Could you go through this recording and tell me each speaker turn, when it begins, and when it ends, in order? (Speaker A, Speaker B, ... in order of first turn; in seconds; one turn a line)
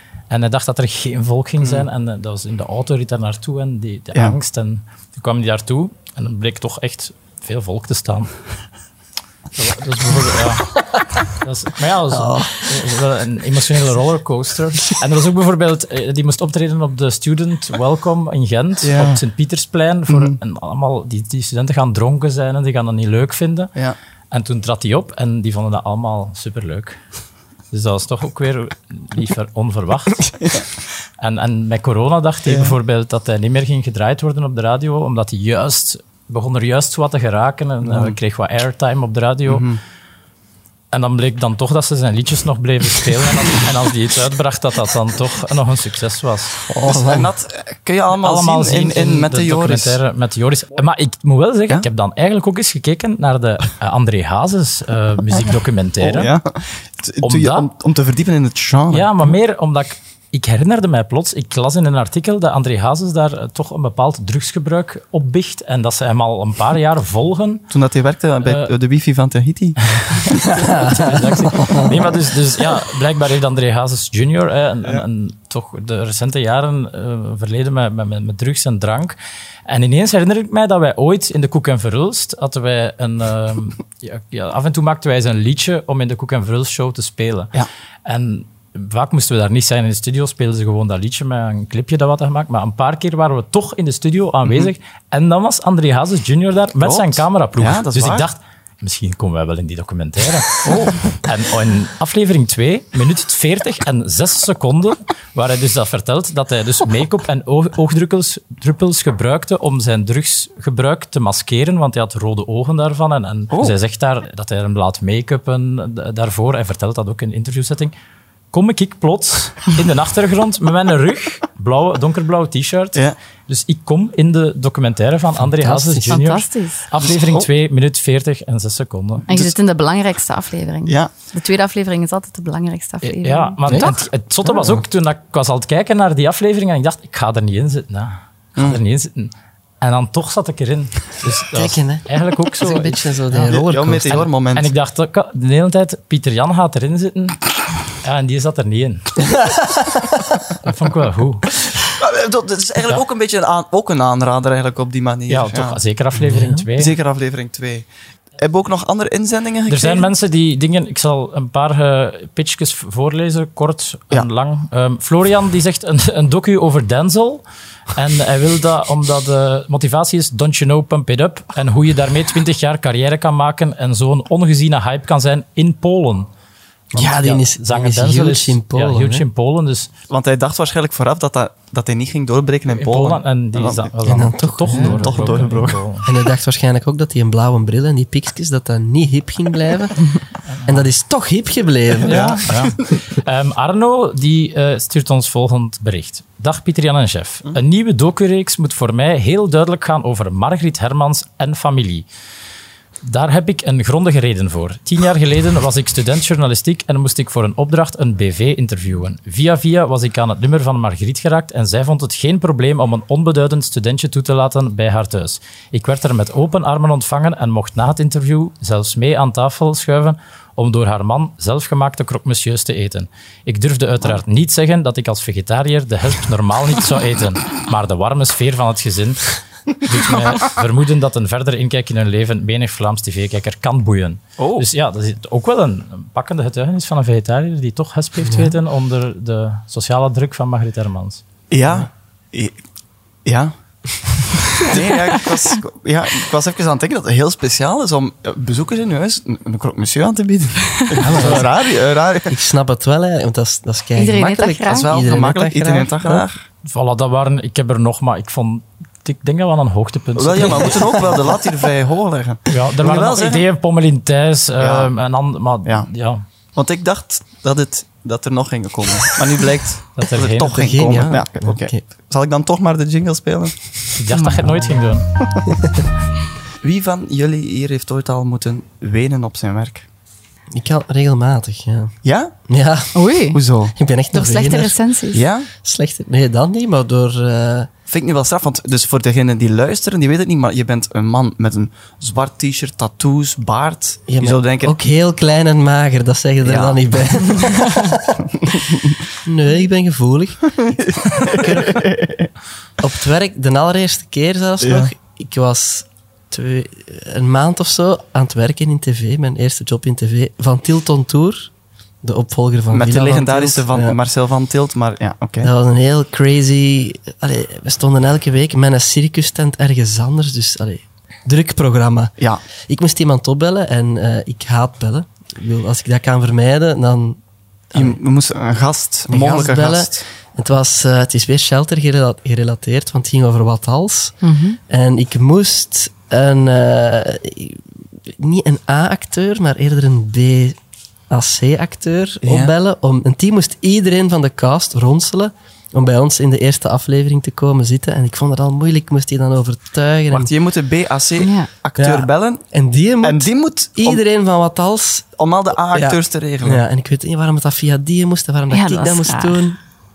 Speaker A: 0.3-8.3
Speaker B: 1.6-1.9
Speaker A: 9.6-23.8
Speaker C: 12.1-12.7
Speaker B: 18.8-19.2
Speaker B: 20.1-20.4
Speaker A: 24.3-27.0
Speaker A: 27.7-30.3
Speaker A: 31.2-39.7
Speaker B: 32.5-32.8
Speaker B: 37.8-38.2
Speaker B: 39.5-39.8
Speaker A: 40.9-46.6
Speaker C: 46.7-47.3
Speaker B: 46.8-50.0
Speaker A: 48.1-56.3
Speaker B: 56.0-59.4
Speaker A: 57.2-57.7
Speaker A: 58.9-67.7
Speaker B: 67.7-70.5
Speaker A: 68.4-68.7
Speaker C: 70.4-72.1
Speaker A: 70.4-79.2
Speaker A: 79.7-87.5
Speaker A: 88.1-117.9
Speaker B: 96.8-98.3
Speaker B: 100.6-101.1
Speaker A: 118.5-129.3
Speaker C: 125.6-126.1
Speaker D: 126.1-126.8
Speaker B: 129.3-129.5
Speaker D: 129.3-133.9
Speaker A: 133.1-143.6
Speaker C: 133.7-133.9
Speaker C: 141.5-144.2
Speaker B: 143.4-144.7
Speaker A: 144.1-147.4
Speaker A: 148.0-149.3
Speaker C: 149.3-150.2
Speaker A: 150.6-151.5
Speaker B: 151.9-155.8
Speaker A: 155.3-157.0
Speaker C: 156.2-156.6
Speaker B: 156.8-157.9
Speaker B: 158.4-160.1
Speaker A: 159.7-176.3
Speaker C: 176.9-179.3
Speaker A: 177.0-179.9
Speaker B: 180.1-183.9
Speaker A: 182.7-186.1
Speaker C: 184.0-185.5
Speaker B: 184.7-185.8
Speaker C: 186.0-190.1
Speaker A: 190.6-190.9
Speaker C: 190.7-192.4
Speaker A: 192.0-202.1
Speaker B: 192.1-193.0
Speaker A: 203.0-241.2
Speaker B: 234.4-234.7
Speaker C: 238.3-238.5
Speaker B: 241.5-242.6
Speaker B: 243.2-252.4
Speaker C: 251.0-251.5
Speaker A: 251.0-251.5
Speaker C: 252.3-256.3
Speaker D: 254.0-255.0
Speaker B: 254.7-256.4
Speaker A: 256.7-261.2
Speaker B: 260.2-263.4
Speaker A: 262.5-266.2
Speaker B: 264.6-264.9
Speaker B: 266.6-273.7
Speaker A: 270.0-270.7
Speaker C: 270.5-271.8
Speaker A: 274.0-275.1
Speaker D: 274.1-274.5
Speaker B: 276.6-279.9
Speaker C: 280.5-281.9
Speaker B: 282.0-282.3
Speaker C: 282.5-283.0
Speaker D: 282.9-283.4
Speaker B: 283.3-283.8
Speaker C: 283.7-284.8
Speaker D: 284.1-285.2
Speaker B: 285.1-285.5
Speaker C: 285.6-287.7
Speaker B: 287.9-294.7
Speaker C: 294.1-298.6
Speaker B: 296.4-296.8
Speaker B: 298.5-298.9
Speaker C: 299.2-301.9
Speaker B: 300.7-302.3
Speaker C: 302.8-311.5
Speaker B: 304.6-304.9
Speaker C: 312.0-314.0
Speaker B: 312.7-315.5
Speaker C: 315.4-322.1
Speaker C: 322.7-327.2
Speaker C: 327.7-328.0
Speaker B: 327.7-330.0
Speaker C: 329.1-334.2
Speaker D: 334.2-334.6
Speaker C: 334.7-340.6
Speaker C: 341.1-350.3
Speaker B: 342.2-342.5
Speaker B: 350.1-352.4
Speaker D: 351.2-351.5
Speaker C: 351.8-355.1
Speaker B: 353.0-354.0
Speaker B: 355.2-356.6
Speaker C: 355.7-359.6
Speaker D: 358.5-359.4